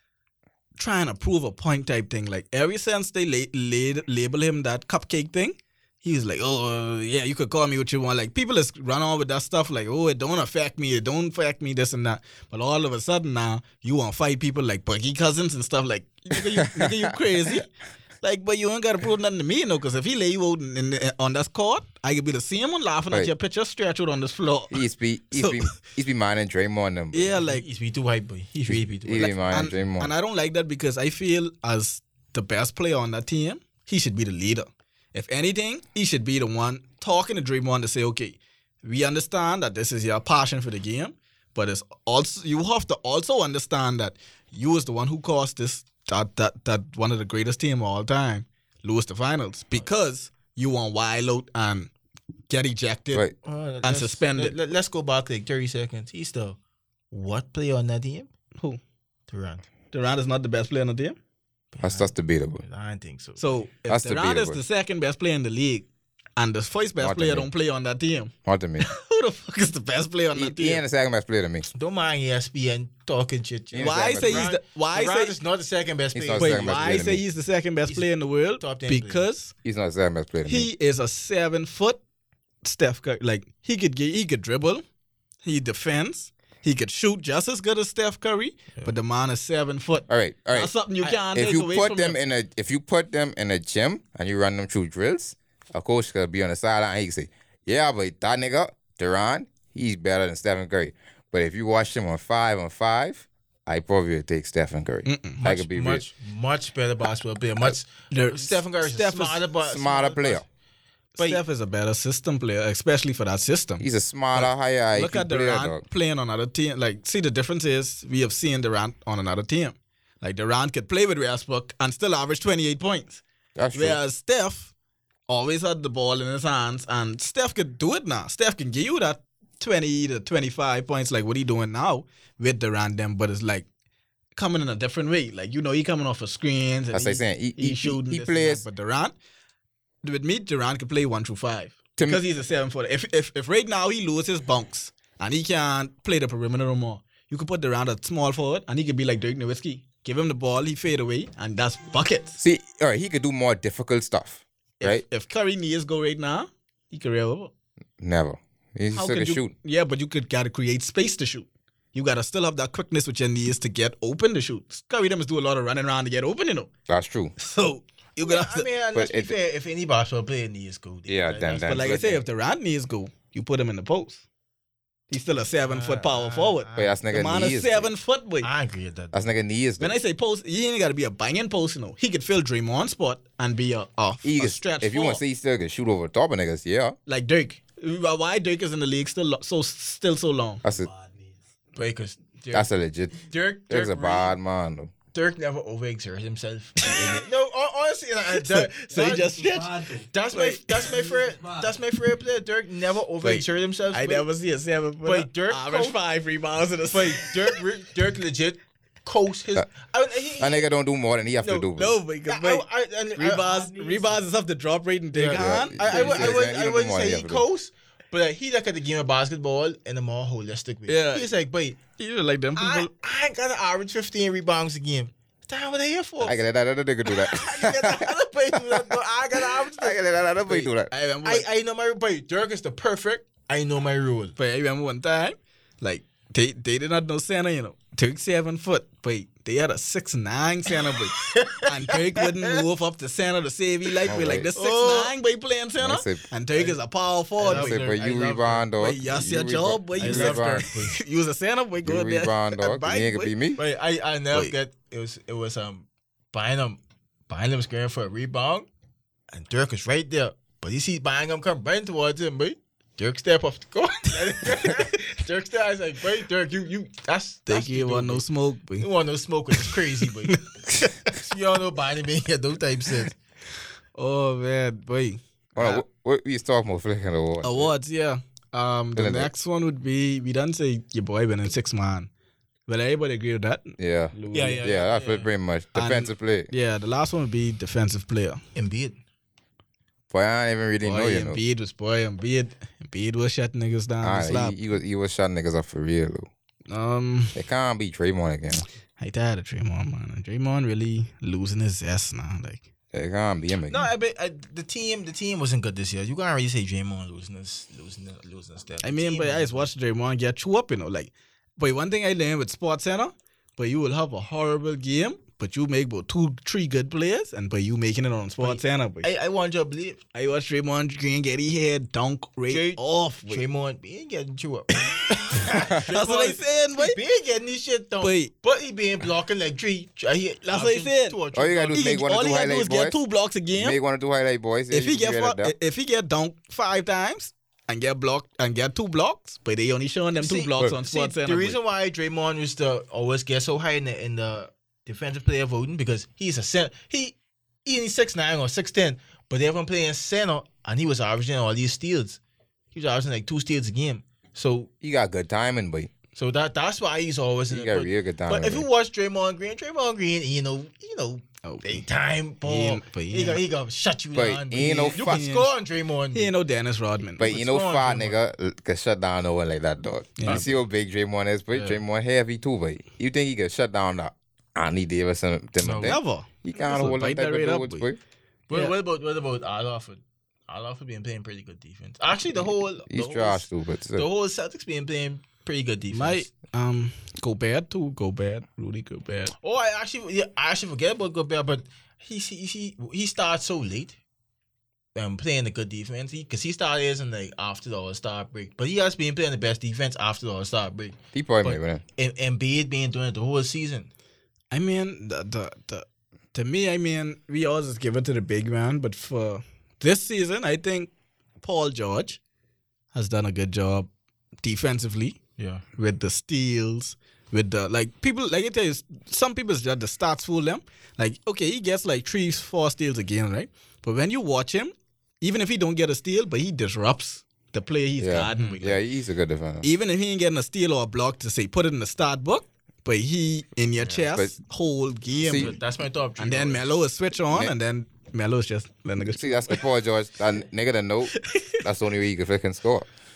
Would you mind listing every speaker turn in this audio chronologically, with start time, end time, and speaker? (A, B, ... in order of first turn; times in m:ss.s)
0:00.8-0:17.7 A
0:16.3-0:17.2 B
0:18.2-0:24.8 A
0:24.7-0:27.4 B
0:25.4-0:25.8 A
0:27.1-0:27.6 A
0:27.4-0:29.8 C
0:28.7-0:30.1 B
0:29.5-0:51.9 A
0:52.5-0:53.3 A
0:53.4-0:56.6 C
0:53.8-0:54.6 A
0:57.1-0:58.3 C
0:59.3-0:59.7 C
0:59.9-1:01.2 A
1:01.7-1:03.7 C
1:01.8-1:02.6 B
1:03.4-1:10.8 A
1:03.9-1:04.6 B
1:07.0-1:07.5 B
1:08.4-1:08.9 B
1:10.4-1:11.7 B
1:11.7-1:16.9 C
1:13.7-1:14.5 B
1:13.8-1:15.3 A
1:16.1-1:17.2 B
1:16.4-1:19.5 A
1:18.6-1:19.3 C
1:19.6-1:20.7 B
1:20.5-1:22.0 A
1:22.6-1:24.8 A
1:25.4-1:32.2 A
1:30.1-1:30.7 B
1:31.0-1:31.6 C
1:31.3-1:46.1 B
1:45.0-1:45.4 A
1:45.4-1:50.4 C
1:48.1-1:49.4 A
1:49.6-1:50.4 B
1:51.2-2:03.2 A
1:53.8-1:55.8 B
2:03.6-2:04.0 B
2:03.7-2:04.7 A
2:05.3-2:13.7 A
2:14.4-2:19.1 A
2:16.9-2:18.7 B
2:20.0-2:32.4 A
2:22.0-2:22.2 B
2:32.4-2:35.0 B
2:34.8-2:37.5 A
2:38.0-2:39.5 B
2:38.9-2:46.7 A
2:46.9-2:47.3 B
2:47.4-2:48.7 A
2:48.2-2:52.0 C
2:48.9-2:49.4 B
2:51.1-2:52.2 B
2:51.6-2:54.2 A
2:55.1-2:58.5 A
2:55.5-2:57.0 C
2:56.8-2:57.9 B
2:58.4-2:59.3 C
2:59.1-3:00.0 B
2:59.8-3:05.2 A
3:04.2-3:07.0 B
3:07.1-3:11.0 A
3:10.6-3:10.9 B
3:11.7-3:12.7 C
3:12.5-3:14.9 B
3:13.3-3:14.4 C
3:15.1-3:24.3 C
3:16.8-3:17.2 A
3:18.3-3:21.6 A
3:23.2-3:27.6 A
3:25.0-3:26.0 C
3:26.9-3:30.6 C
3:30.4-3:32.0 B
3:31.4-3:31.7 C
3:31.8-3:32.6 A
3:32.3-3:34.2 C
3:33.2-3:36.4 A
3:35.1-3:41.8 C
3:35.4-3:37.4 B
3:40.9-3:41.3 A
3:42.0-3:42.9 A
3:42.6-3:46.4 C
3:46.2-3:50.9 B
3:47.1-3:50.0 C
3:50.5-3:51.5 A
3:51.2-3:54.4 C
3:54.4-4:07.8 A
4:01.2-4:02.6 C
4:04.0-4:04.5 B
4:04.6-4:05.1 C
4:05.8-4:06.2 B
4:07.4-4:08.7 C
4:07.4-4:10.7 B
4:08.8-4:13.3 A
4:10.0-4:11.0 C
4:11.8-4:13.6 B
4:13.6-4:18.7 C
4:19.3-4:28.2 C
4:27.5-4:28.9 A
4:28.8-4:30.4 C
4:29.6-4:31.1 A
4:31.0-4:33.2 C
4:34.0-4:35.8 A
4:35.6-4:37.7 B
4:37.4-4:42.1 A
4:39.0-4:39.3 B
4:42.7-4:44.7 A
4:43.8-4:46.5 B
4:44.3-4:45.3 C
4:45.8-4:48.4 A
4:48.6-4:49.0 C
4:50.1-4:51.4 B
4:50.8-4:54.6 A
4:54.0-4:56.3 B
4:56.7-4:57.4 A
4:57.4-4:58.6 B
4:59.0-5:02.7 A
5:02.9-5:03.9 B
5:03.7-5:09.7 C
5:08.8-5:19.1 A
5:18.4-5:20.0 C
5:20.1-5:23.4 A
5:22.5-5:32.0 C
5:24.8-5:27.0 A
5:28.0-5:28.3 A
5:30.4-5:31.2 A
5:31.3-5:33.0 B
5:31.7-5:33.8 A
5:33.5-5:35.5 B
5:34.7-5:41.6 A
5:40.2-5:52.2 C
5:52.7-5:54.7 C
5:54.8-5:55.9 B
5:56.2-6:06.3 C
5:57.5-5:58.7 B
6:01.4-6:01.8 A
6:02.4-6:03.4 A
6:04.2-6:05.2 B
6:04.6-6:05.5 A
6:06.1-6:07.3 A
6:07.2-6:18.0 B
6:07.2-6:08.2 C
6:10.2-6:10.4 A
6:10.3-6:10.6 C
6:11.5-6:11.8 C
6:15.6-6:16.0 C
6:15.8-6:17.8 A
6:18.5-6:26.3 C
6:22.9-6:24.1 B
6:25.9-6:29.3 A
6:29.4-6:34.0 C
6:35.0-6:43.9 C
6:41.1-6:41.8 B
6:44.5-6:50.9 A
6:51.4-6:52.2 A
6:52.9-6:53.9 A
6:54.4-6:55.2 A
6:55.4-6:55.6 C
6:55.8-7:08.8 A
7:08.0-7:09.7 B
7:09.6-7:15.6 A
7:13.8-7:14.1 C
7:15.2-7:15.5 B
7:15.3-7:16.8 C
7:16.2-7:19.6 A
7:19.1-7:22.9 B
7:21.2-7:21.6 A